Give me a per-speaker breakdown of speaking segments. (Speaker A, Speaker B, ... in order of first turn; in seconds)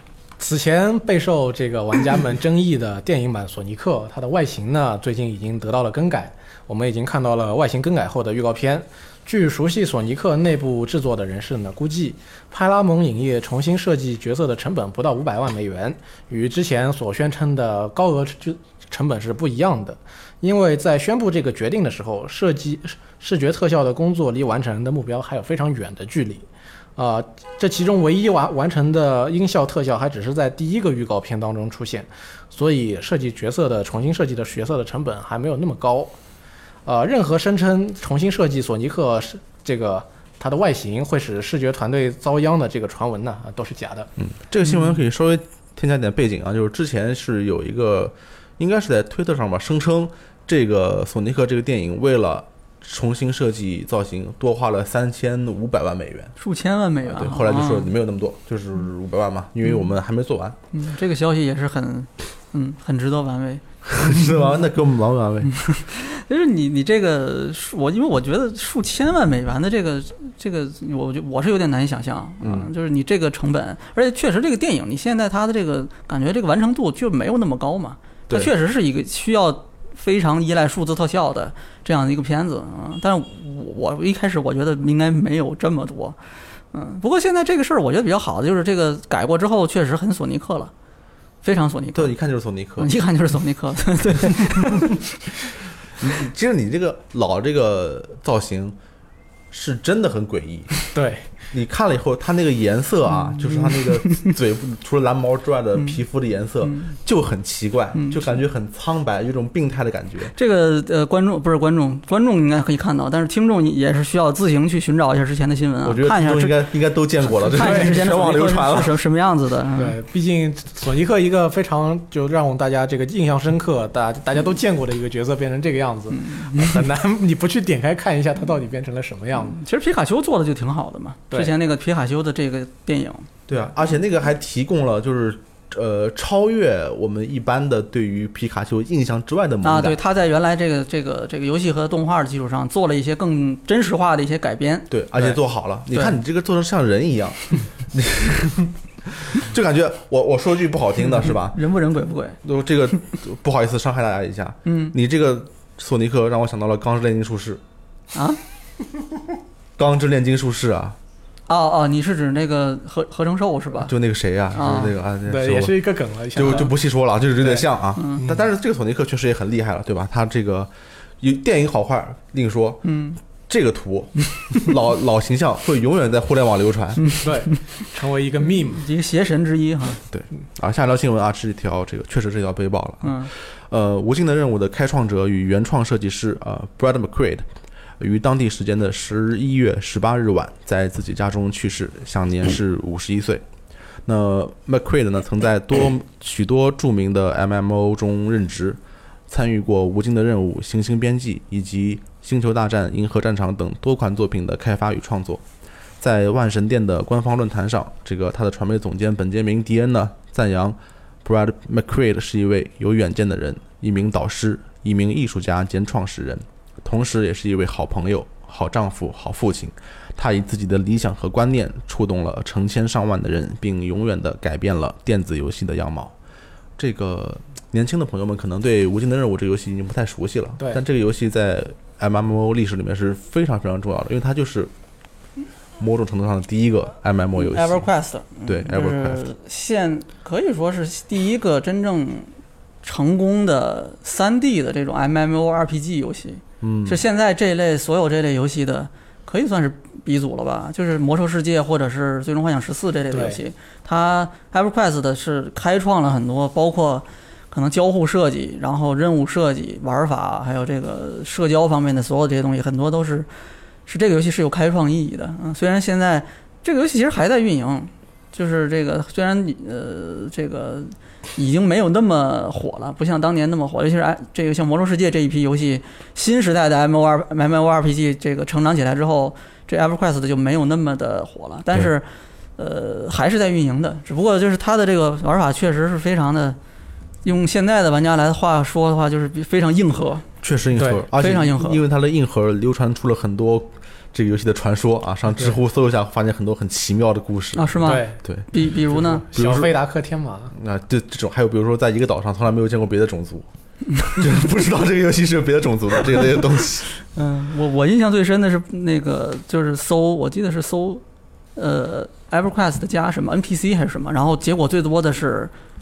Speaker A: 0.4-36.1, 36.9-44.1, 100.9-101.3, 117.6-118.0, 119.8-129.6, 165.2-166.7, 167.4-168.4, 177.2-178.8, 253.1-253.4, 290.8-291.1, 297.8-298.2, 298.9-300.5
Speaker B: 44.2-56.3, 57.0-60.6, 63.8-65.5, 72.4-72.7, 91.9-92.9, 96.0-98.8, 99.5-100.7, 101.5-110.3, 115.8-119.0, 133.5-140.0, 144.9-151.6, 152.4-157.6, 159.8-161.0, 163.8-165.7, 166.3-172.9, 173.4-177.1, 180.1-187.4, 188.0-193.4, 194.1-205.4, 206.0-226.1, 226.8-234.7, 235.8-237.9, 238.4-239.2, 246.6-247.0, 290.4-298.5, 299.3-299.7, 300.5-303.5, 304.1-306.9
Speaker C: 56.4-57.9, 60.7-64.4, 65.5-86.2, 86.7-90.7, 91.4-92.1, 92.8-95.0, 103.2-104.3, 105.8-106.0, 106.6-106.9, 107.9-108.3, 110.3-116.7, 117.2-120.0, 126.1-126.8, 129.4-133.3, 139.6-144.9, 151.1-152.4, 154.7-154.9, 158.1-158.4, 161.5-163.9, 164.5-164.9, 172.8-173.2, 177.0-177.3, 178.7-180.0, 183.0-183.3, 237.3-263.3, 263.9-282.1, 282.6-286.6, 287.2-290.3, 291.1-291.8, 297.6-299.3, 307.1-311.0, 311.6-315.5